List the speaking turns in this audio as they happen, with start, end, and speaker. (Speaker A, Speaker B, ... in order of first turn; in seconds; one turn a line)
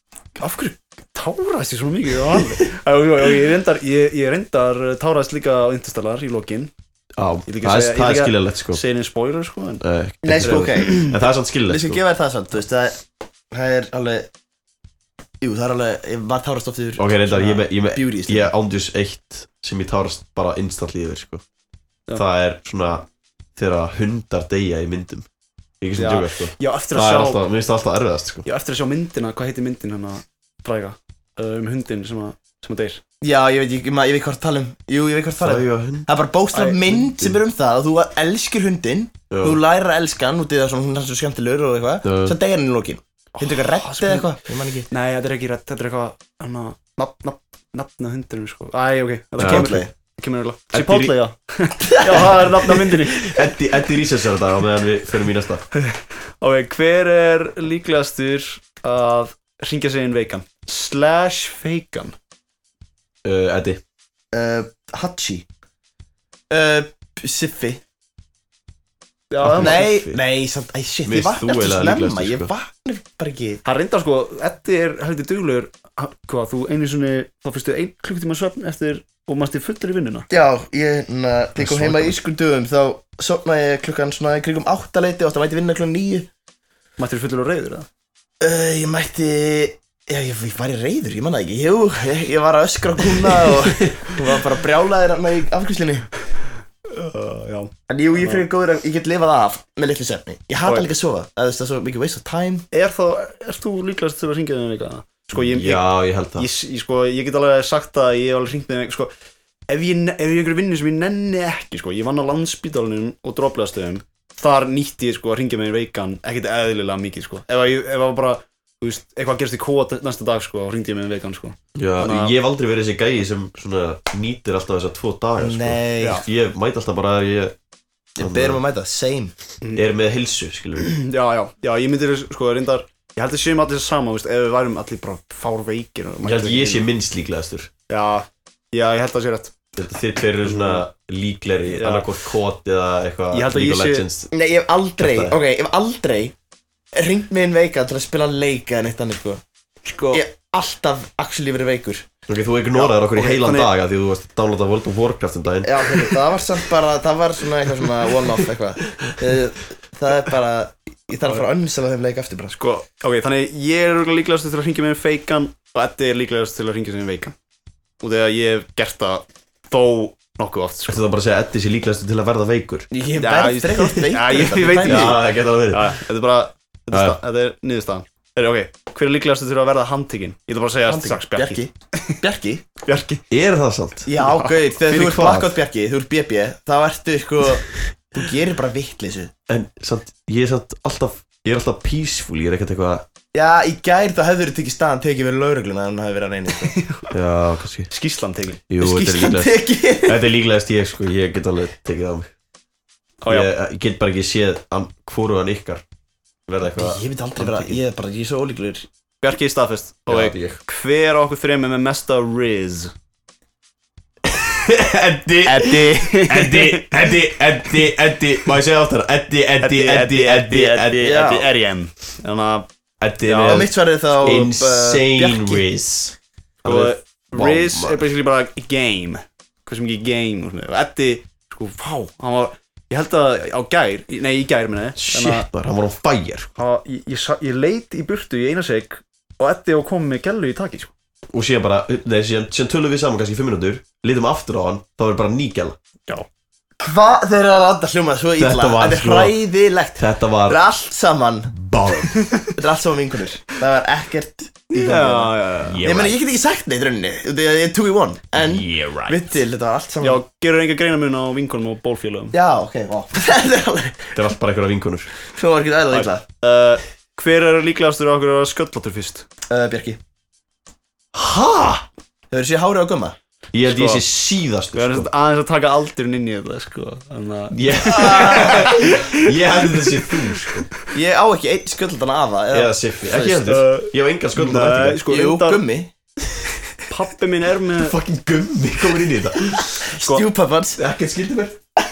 Speaker A: 0.4-6.7
Speaker B: 7.2-8.8
Speaker A: 7.5-9.8
Speaker B: 9.8-12.0
Speaker C: 10.2-14.3
Speaker A: 10.4-10.7
Speaker C: 15.4-18.5
Speaker B: 17.0-21.4
Speaker B: 22.1-25.3
Speaker B: 25.8-28.5
Speaker A: 26.0-27.4
Speaker A: 28.4-33.0
Speaker C: 33.2-44.9
Speaker B: 35.4-36.1
Speaker A: 36.5-37.3
Speaker B: 39.3-39.6
Speaker B: 42.0-42.4
Speaker A: 43.4-44.4
Speaker A: 44.9-53.4
Speaker B: 49.4-49.7
Speaker C: 49.4-49.9
Speaker B: 50.7-51.2
Speaker B: 52.8-55.7
Speaker A: 55.8-62.1
Speaker B: 63.2-63.8
Speaker C: 64.3-65.5
Speaker C: 66.5-67.8
Speaker A: 69.3-69.9
Speaker B: 69.4-70.2
Speaker C: 69.5-73.6
Speaker B: 71.0-72.5
Speaker A: 73.7-80.2
Speaker C: 80.3-86.3
Speaker B: 81.6-82.2
Speaker A: 87.0-87.9
Speaker C: 88.4-96.1
Speaker B: 93.5-94.2
Speaker A: 96.9-98.5
Speaker C: 97.9-102.7
Speaker A: 102.7-109.1
Speaker B: 105.3-106.5
Speaker A: 109.7-122.3
Speaker B: 121.8-127.5
Speaker C: 125.4-126.2
Speaker A: 126.0-126.2
Speaker B: 128.2-128.6
Speaker C: 128.2-129.3
Speaker B: 129.7-131.0
Speaker A: 130.8-136.9
Speaker B: 136.2-137.7
Speaker A: 137.9-139.5
Speaker B: 139.8-144.3
Speaker A: 140.4-140.8
Speaker A: 141.7-142.1
Speaker A: 143.3-144.1
Speaker C: 144.3-146.3
Speaker B: 145.0-145.4
Speaker C: 146.9-149.4
Speaker A: 149.9-150.2
Speaker C: 150.1-152.1
Speaker B: 152.3-156.2
Speaker A: 152.8-153.7
Speaker C: 155.6-162.6
Speaker A: 162.6-167.3
Speaker A: 168.0-171.0
Speaker B: 170.9-172.9
Speaker C: 172.9-175.2
Speaker A: 173.2-181.6
Speaker B: 174.8-176.0
Speaker B: 176.9-177.2
Speaker C: 180.9-182.7
Speaker A: 182.8-183.2
Speaker B: 183.3-184.1
Speaker C: 184.1-189.3
Speaker A: 184.2-184.6
Speaker B: 184.9-185.6
Speaker B: 189.5-193.1
Speaker C: 193.3-196.8
Speaker A: 196.7-197.1
Speaker B: 197.1-197.9
Speaker A: 197.9-198.6
Speaker B: 198.7-202.3
Speaker C: 198.8-200.2
Speaker A: 203.2-203.5
Speaker B: 203.3-205.8
Speaker B: 206.5-207.8
Speaker C: 206.7-208.9
Speaker A: 209.2-212.9
Speaker B: 210.1-210.6
Speaker B: 214.3-221.4
Speaker A: 215.4-216.9
Speaker A: 219.6-222.7
Speaker C: 221.0-221.5
Speaker B: 223.0-228.0
Speaker A: 223.2-224.5
Speaker C: 223.4-225.7
Speaker A: 226.6-235.5
Speaker B: 235.0-236.5
Speaker A: 236.6-240.9
Speaker B: 241.3-245.8
Speaker C: 246.8-251.5
Speaker B: 248.4-249.4
Speaker B: 250.0-250.6
Speaker B: 251.5-252.2
Speaker C: 252.5-260.2
Speaker A: 254.7-255.8
Speaker B: 255.7-256.2
Speaker B: 258.4-259.4
Speaker A: 260.0-262.3
Speaker C: 262.3-264.2
Speaker B: 264.1-265.1
Speaker C: 265.3-266.2
Speaker A: 265.9-269.3
Speaker C: 269.5-270.0
Speaker B: 271.1-271.9
Speaker C: 272.3-273.2
Speaker B: 273.5-275.1
Speaker A: 273.6-274.1
Speaker A: 274.7-279.3
Speaker B: 277.5-280.7
Speaker C: 277.9-278.6
Speaker A: 279.8-280.5
Speaker C: 280.9-283.4
Speaker B: 282.5-285.1
Speaker A: 283.4-285.6
Speaker C: 285.0-285.9
Speaker A: 286.9-287.9
Speaker B: 287.8-289.7
Speaker C: 289.9-290.8
Speaker A: 290.0-290.2
Speaker B: 290.8-291.6